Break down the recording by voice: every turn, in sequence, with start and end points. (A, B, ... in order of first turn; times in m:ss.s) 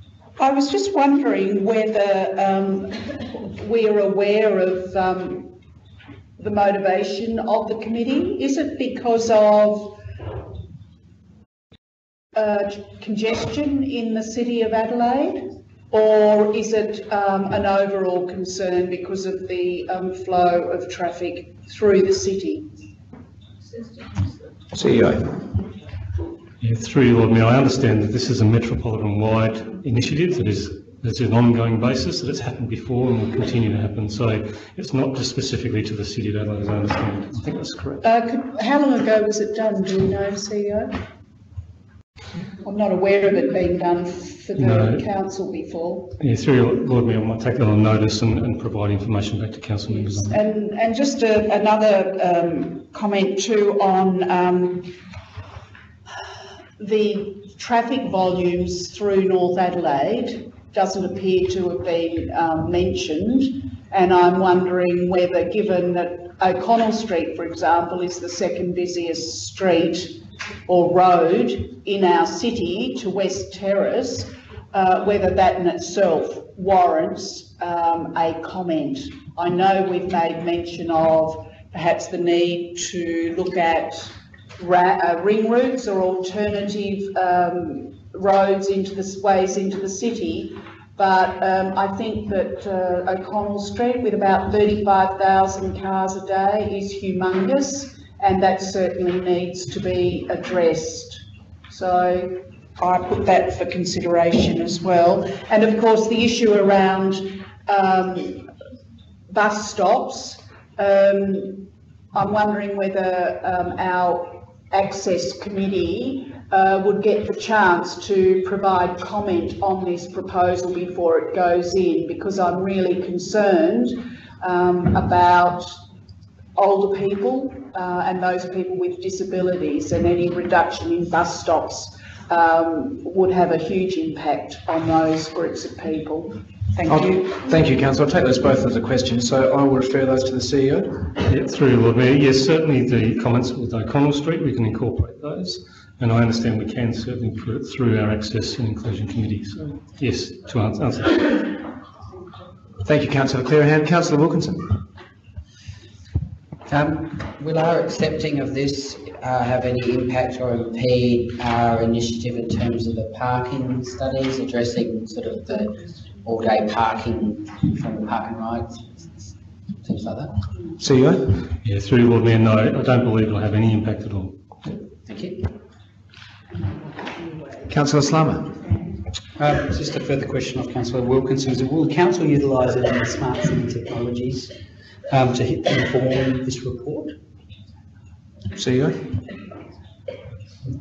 0:00.4-0:05.5 A
0:06.4-0:10.0 A
0:12.3-0:22.7 A
0:24.7-0:25.3 B
0:26.6-0:37.5 C
0:37.4-0:38.0 B
0:38.0-0:41.0 A
0:42.6-0:46.1 A
0:44.6-0:45.0 C
0:46.2-0:50.4 C
0:50.2-0:54.9 A
0:56.8-1:10.2 A
1:10.7-1:48.4 A
1:49.3-2:05.7 A
2:06.6-2:17.2 A
2:16.9-2:21.0 B
2:21.3-2:31.5 C
2:32.8-2:34.8 B
2:36.7-2:49.3 D
2:49.8-2:50.3 D
2:50.8-2:51.2 B
2:51.6-2:54.3 C
2:55.1-2:55.4 D
2:57.7-2:58.6 B
2:59.4-3:04.5 E
3:05.1-3:07.1 E
3:08.5-3:09.0 B